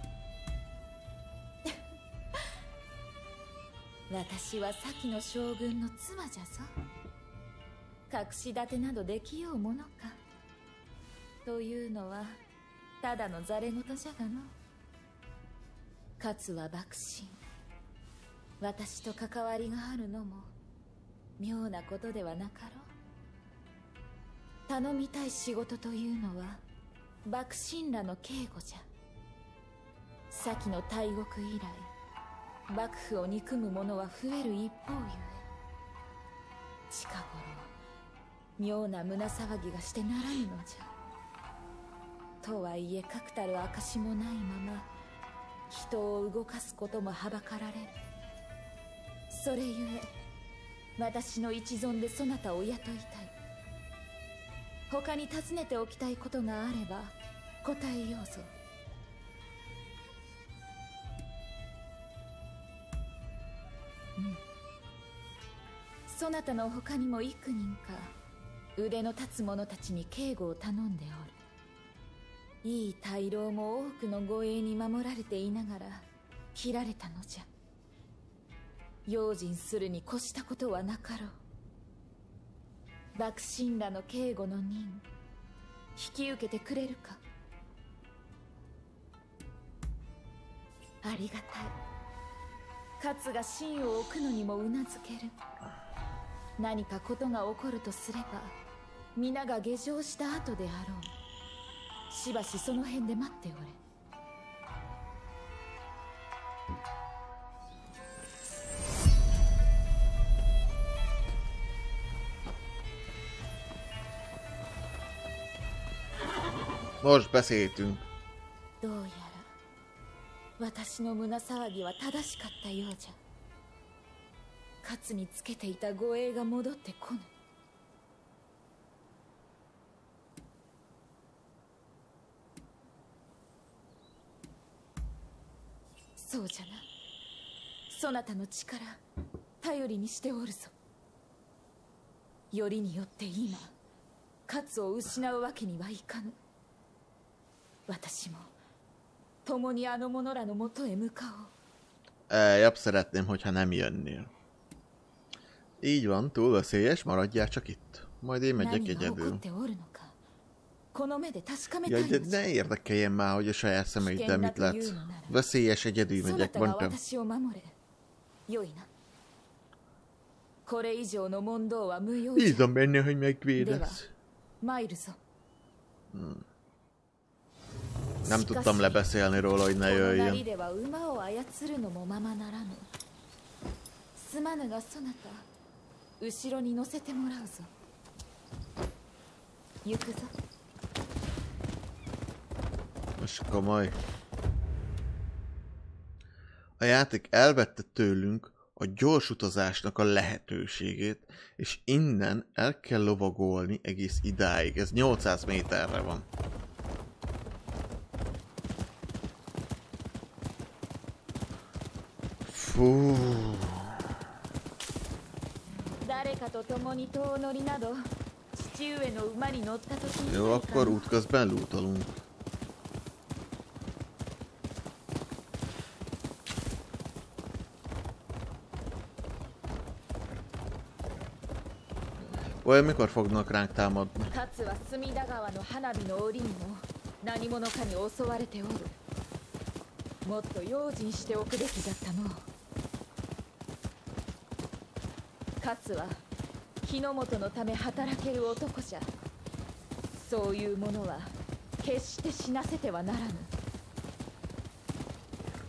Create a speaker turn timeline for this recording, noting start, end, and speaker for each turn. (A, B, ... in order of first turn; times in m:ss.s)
0:04.1-0:06.7 A
0:08.1-0:10.2 A
0:11.4-0:12.4 A
0:13.0-0:14.5 A
0:16.2-0:17.4 A
0:18.6-0:20.5 A
0:21.4-0:22.9 A
0:24.7-0:26.6 A
0:27.2-0:28.8 A
0:30.3-0:31.9 A
0:32.7-0:35.4 A
0:36.9-0:37.7 A
0:38.6-0:40.9 A
0:42.4-0:44.9 A
0:45.7-0:47.9 A
0:49.3-0:50.1 A
0:51.0-0:53.3 A
0:54.9-0:58.5 A
1:06.1-1:08.1 A
1:08.8-1:11.4 A
1:12.6-1:17.5 A
1:19.1-1:21.3 A
1:23.2-1:25.0 A
1:26.0-1:27.2 A
1:31.0-1:31.7 A
1:33.0-1:35.3 A
1:36.6-1:38.6 A
1:39.2-1:41.1 A
1:42.1-1:43.8 A
1:57.0-1:58.0 B
1:58.8-1:59.5 A
2:00.6-2:03.2 A
2:04.8-2:07.3 A
2:16.2-2:16.8 A
2:17.9-2:19.0 A
2:19.6-2:20.7 A
2:22.5-2:23.7 A
2:24.5-2:26.4 A
2:27.9-2:28.5 A
2:29.4-2:31.5 A
2:32.3-2:34.3 B
2:35.8-2:39.4 B
2:38.5-2:40.2 A
2:40.9-2:42.4 A
2:41.8-2:47.0 B
2:44.0-2:45.4 A
2:46.2-2:47.7 A
2:48.5-2:48.9 A
2:50.6-2:52.6 A
2:52.3-2:54.1 B
2:53.6-2:54.0 A
2:54.6-2:55.2 A
2:56.1-2:56.4 B
2:58.2-2:59.0 A
2:58.2-3:00.4 B
2:59.8-3:02.9 A
3:04.2-3:05.4 A
3:06.2-3:07.7 A
3:09.8-3:10.3 A
3:13.2-3:13.9 B
3:16.8-3:26.2 B
3:32.4-3:33.9 B
3:36.0-3:38.0 A
3:38.5-3:41.1 A
3:40.3-3:42.2 B
3:52.6-3:54.3 B
3:54.3-3:59.0 A
4:00.2-4:02.4 A
4:05.6-4:06.2 A
4:06.8-4:09.1 A
4:10.2-4:13.5 A